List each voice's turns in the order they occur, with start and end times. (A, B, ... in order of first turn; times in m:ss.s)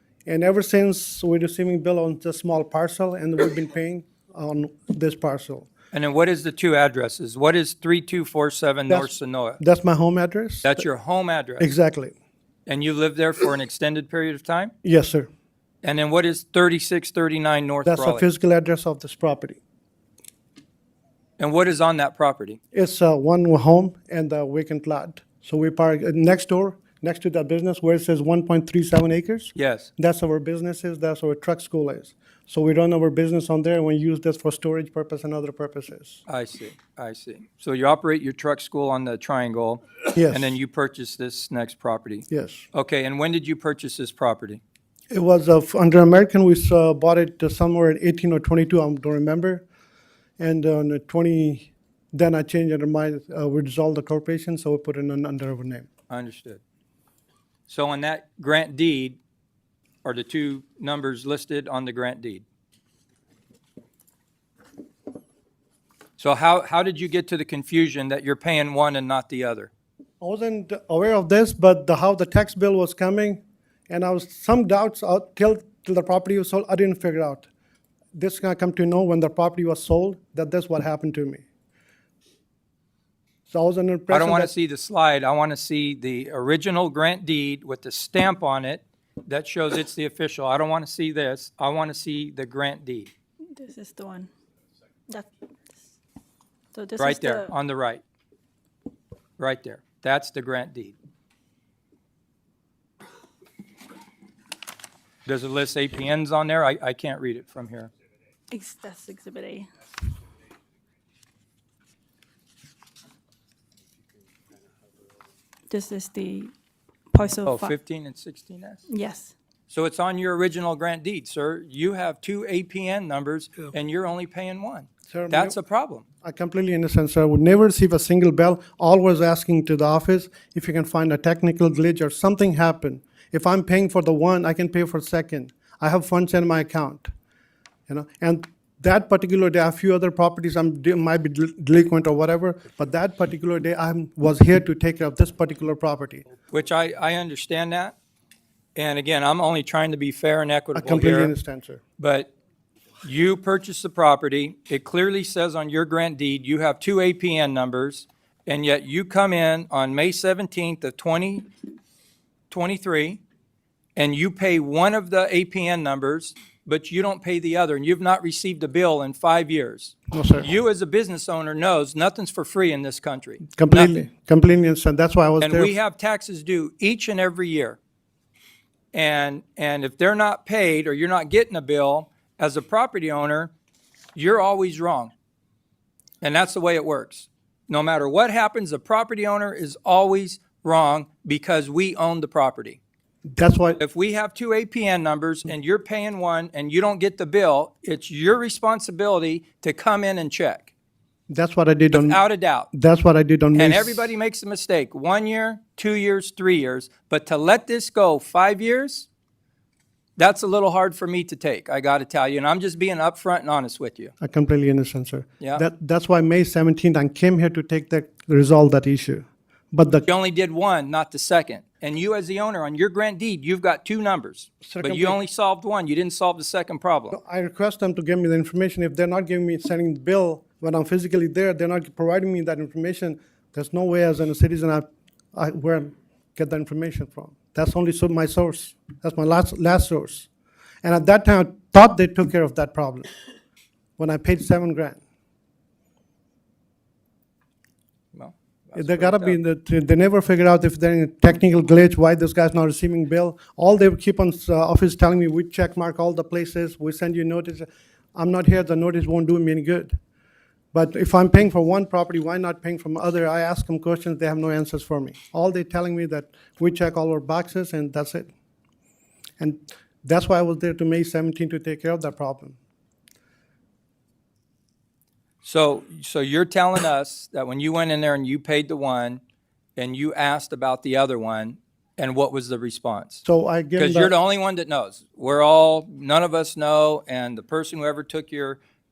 0:00.2-0:05.7 A
0:05.9-0:09.6 B
0:08.9-0:10.8 A
0:10.6-0:11.7 B
0:11.6-0:12.1 A
0:12.7-0:14.7 B
0:14.8-0:15.3 A
0:15.8-0:18.3 B
0:17.8-0:19.6 A
0:21.4-0:22.6 B
0:22.7-0:36.2 A
0:29.5-0:29.9 B
0:36.3-0:44.6 B
0:40.1-0:40.5 A
0:42.3-0:42.7 A
0:45.1-0:49.6 A
0:50.4-0:55.9 A
0:56.1-0:56.6 B
0:57.7-0:59.2 B
1:00.0-1:02.4 B
1:06.2-1:09.7 B
1:10.2-1:17.5 A
1:18.1-1:21.4 A
1:23.5-1:24.5 A
1:24.1-1:33.1 B
1:33.5-1:34.3 C
1:36.7-1:37.5 C
1:37.0-1:38.0 B
1:39.4-1:41.0 B
1:45.2-1:47.9 B
1:48.5-1:49.7 C
1:55.7-1:56.5 C
1:57.1-1:57.8 C
1:57.4-1:58.9 B
1:58.9-1:59.3 C
1:59.7-2:06.0 B
2:05.1-2:05.6 A
2:06.2-2:17.1 A
2:17.9-2:26.2 A
2:26.5-2:27.9 B
2:28.8-2:31.3 B
2:30.7-2:31.8 A
2:32.0-2:32.3 B
2:33.0-2:41.5 B
2:42.5-2:43.2 B
2:44.0-2:53.9 B
2:50.1-2:50.5 A
2:53.5-2:55.7 A
2:55.4-2:57.8 B
2:58.9-3:03.5 B
3:04.1-3:05.1 B
3:06.2-3:12.8 B
3:13.3-3:13.8 A
3:13.8-3:20.7 B
3:21.3-3:22.2 A
3:21.9-3:22.7 B
3:22.7-3:24.1 A
3:23.5-3:29.1 B
3:30.2-3:34.1 B
3:34.2-3:40.0 A
3:40.0-3:47.2 B
3:44.6-3:45.2 A
3:47.1-4:00.3 A
4:00.8-4:03.1 A
4:04.0-4:05.0 A
4:08.1-4:09.4 B
4:08.7-4:20.0 A
4:20.7-4:28.3 A
4:29.4-4:32.6 A
4:35.4-4:39.2 B
4:39.8-4:43.2 B
4:43.2-4:44.1 A
4:43.8-4:48.6 B